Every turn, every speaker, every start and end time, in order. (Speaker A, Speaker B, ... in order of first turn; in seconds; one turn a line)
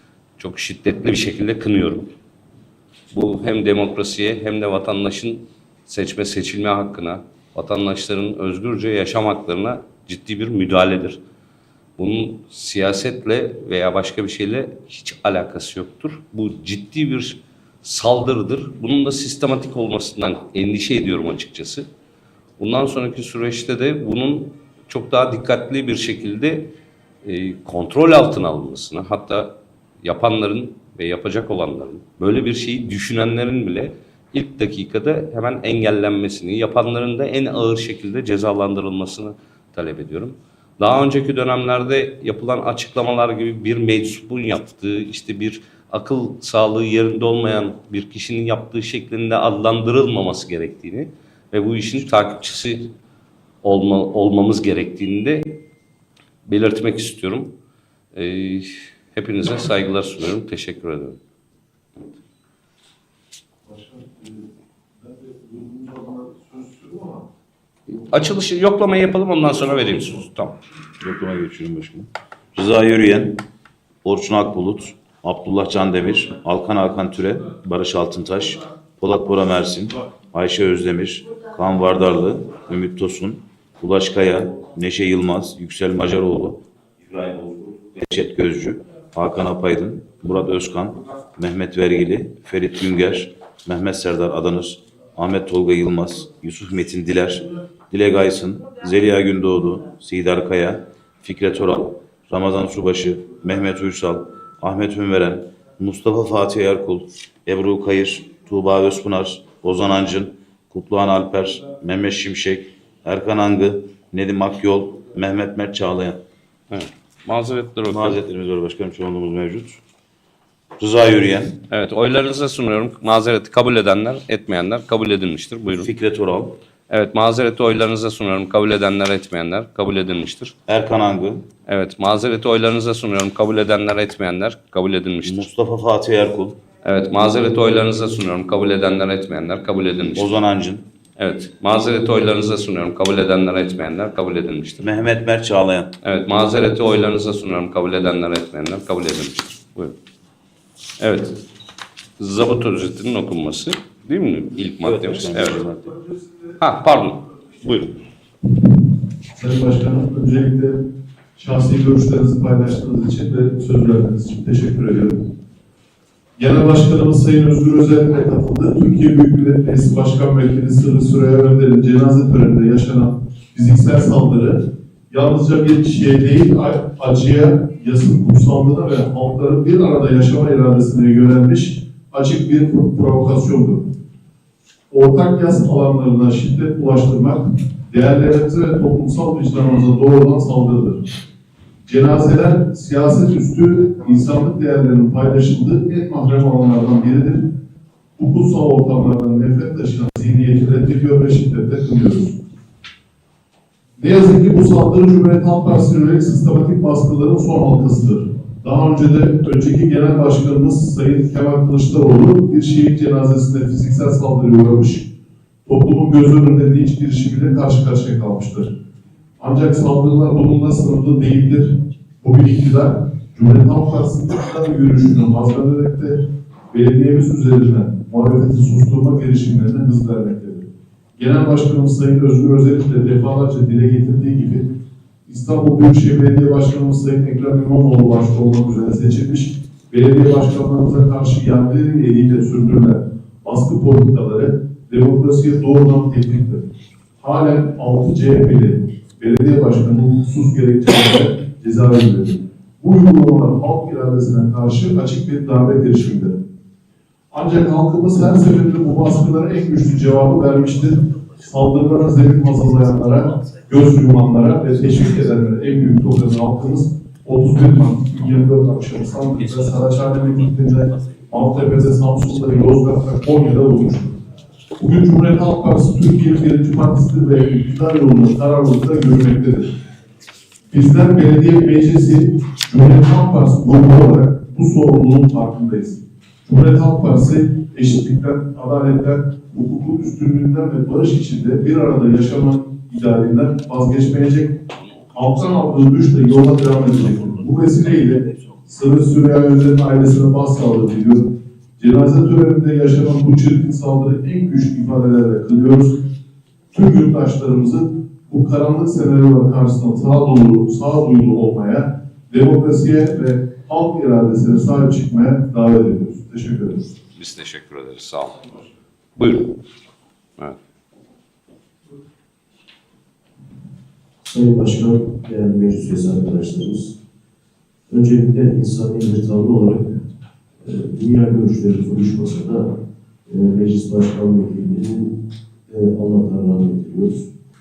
Speaker A: 0.4-2.1
Speaker A: 3.1-11.2
Speaker A: 12.0-21.9
Speaker A: 22.6-26.7
Speaker A: 27.2-52.9
Speaker A: 53.6-55.6
Speaker A: 56.5-57.5
Speaker A: 58.1-61.2
Speaker B: 63.7-64.4
Speaker B: 65.0-67.2
Speaker A: 67.9-70.6
Speaker C: 71.0-73.4
Speaker C: 74.0-116.2
Speaker A: 116.7-118.2
Speaker C: 117.9-119.8
Speaker C: 120.8-121.6
Speaker A: 121.7-125.9
Speaker C: 125.8-126.6
Speaker A: 126.9-130.6
Speaker C: 130.7-131.5
Speaker A: 131.7-135.4
Speaker C: 135.2-136.6
Speaker A: 136.8-140.4
Speaker C: 140.2-140.9
Speaker A: 141.2-144.8
Speaker C: 144.8-145.9
Speaker A: 146.0-149.9
Speaker A: 151.0-151.4
Speaker A: 152.2-155.7
Speaker C: 154.8-156.0
Speaker A: 156.6-158.0
Speaker B: 159.3-160.8
Speaker B: 161.4-165.2
Speaker B: 166.4-183.8
Speaker B: 184.9-191.1
Speaker B: 191.9-197.4
Speaker B: 198.2-202.4
Speaker B: 204.0-215.1
Speaker B: 215.7-218.7
Speaker B: 219.4-234.7
Speaker B: 235.3-246.7
Speaker B: 247.2-256.4
Speaker B: 257.3-274.1
Speaker A: 269.5-270.1
Speaker B: 274.8-279.7
Speaker B: 280.7-294.6
Speaker B: 295.1-306.0
Speaker B: 306.7-316.9
Speaker A: 317.2-318.6
Speaker A: 319.2-319.6
Speaker D: 324.2-327.0
Speaker D: 327.9-329.9
Speaker D: 330.6-332.7
Speaker D: 333.3-335.2
Speaker D: 335.7-337.3